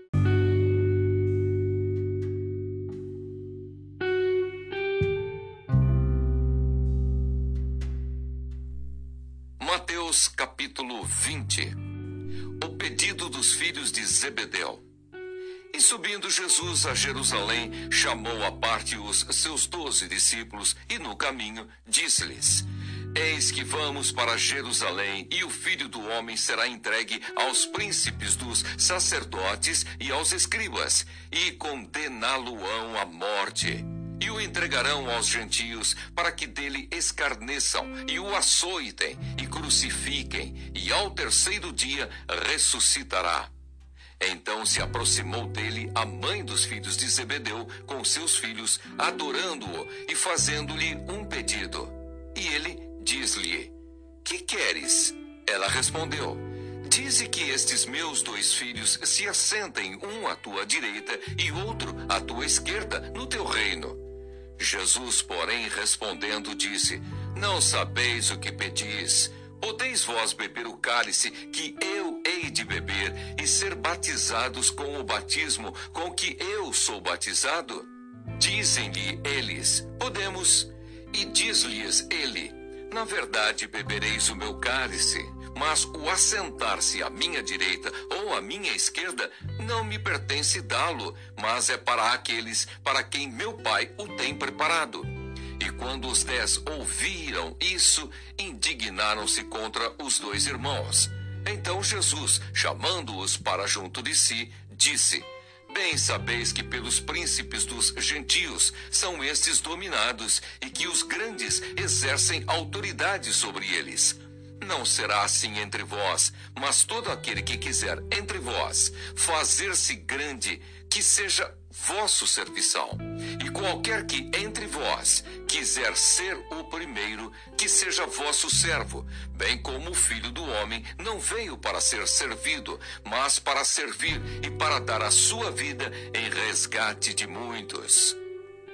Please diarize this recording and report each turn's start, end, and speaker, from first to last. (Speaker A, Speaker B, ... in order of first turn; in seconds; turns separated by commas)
Speaker A: 9.6-11.8, Speaker A: 12.6-14.8, Speaker A: 15.7-43.5, Speaker A: 44.2-64.0, Speaker A: 64.6-138.2